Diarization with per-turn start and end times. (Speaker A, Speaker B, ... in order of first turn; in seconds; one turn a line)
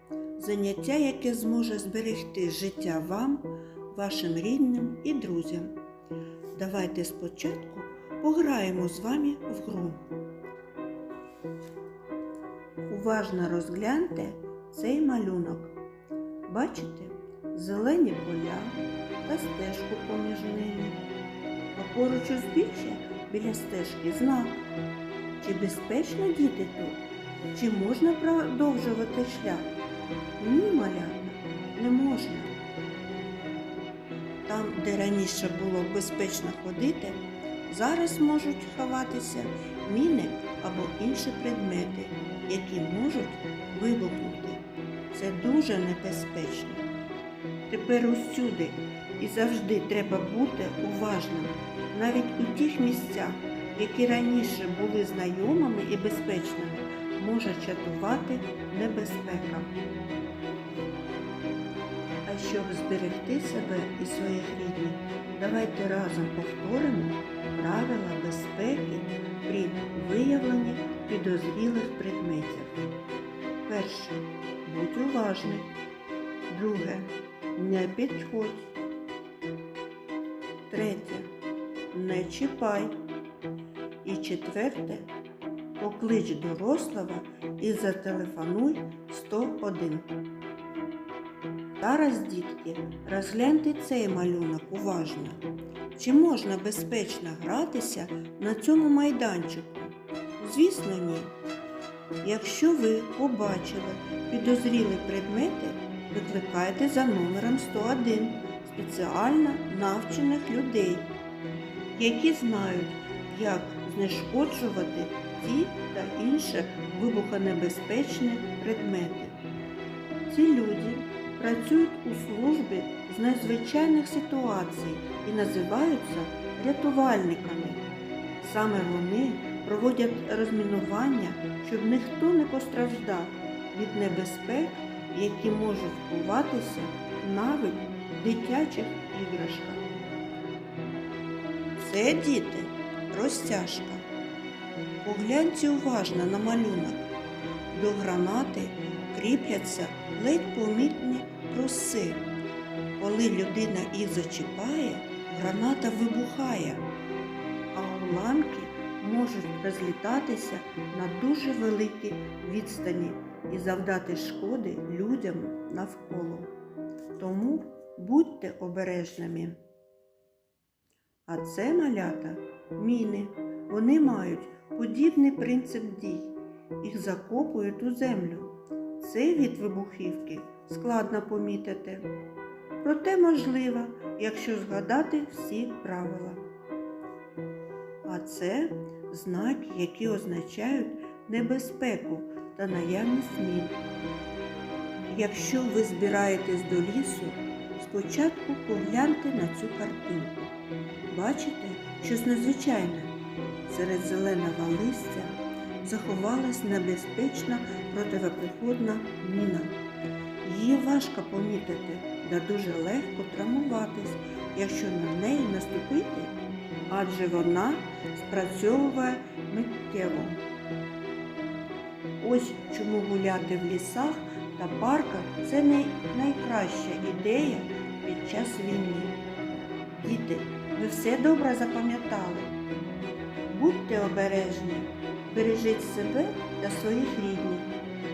Speaker A: 0.4-5.8
Speaker A: 6.5-10.1
Speaker A: 12.9-15.8
Speaker A: 16.5-21.0
Speaker A: 21.8-24.6
Speaker A: 25.4-27.0
Speaker A: 27.5-29.7
Speaker A: 30.4-32.6
Speaker A: 34.5-46.9
Speaker A: 47.7-59.7
Speaker A: 62.3-72.9
Speaker A: 73.7-75.7
Speaker A: 76.5-78.8
Speaker A: 80.7-81.3
Speaker A: 81.9-83.0
Speaker A: 84.0-85.1
Speaker A: 85.8-90.1
Speaker A: 91.8-95.4
Speaker A: 95.9-101.3
Speaker A: 102.2-111.1
Speaker A: 112.0-119.4
Speaker A: 120.3-127.9
Speaker A: 128.4-139.9
Speaker A: 141.8-144.0
Speaker A: 145.0-147.1
Speaker A: 147.7-152.3
Speaker A: 153.0-156.9
Speaker A: 157.7-166.5
Speaker A: 167.2-169.6
Speaker A: 171.3-182.1
Speaker A: 182.8-186.4
Speaker A: 188.0-193.8
Speaker A: 195.1-200.5
Speaker A: 201.1-203.2
Speaker A: 203.7-209.8
Speaker A: 210.4-216.4
Speaker A: 216.9-220.4
Speaker A: 222.2-229.2
Speaker A: 229.9-232.6
Speaker A: 233.5-237.7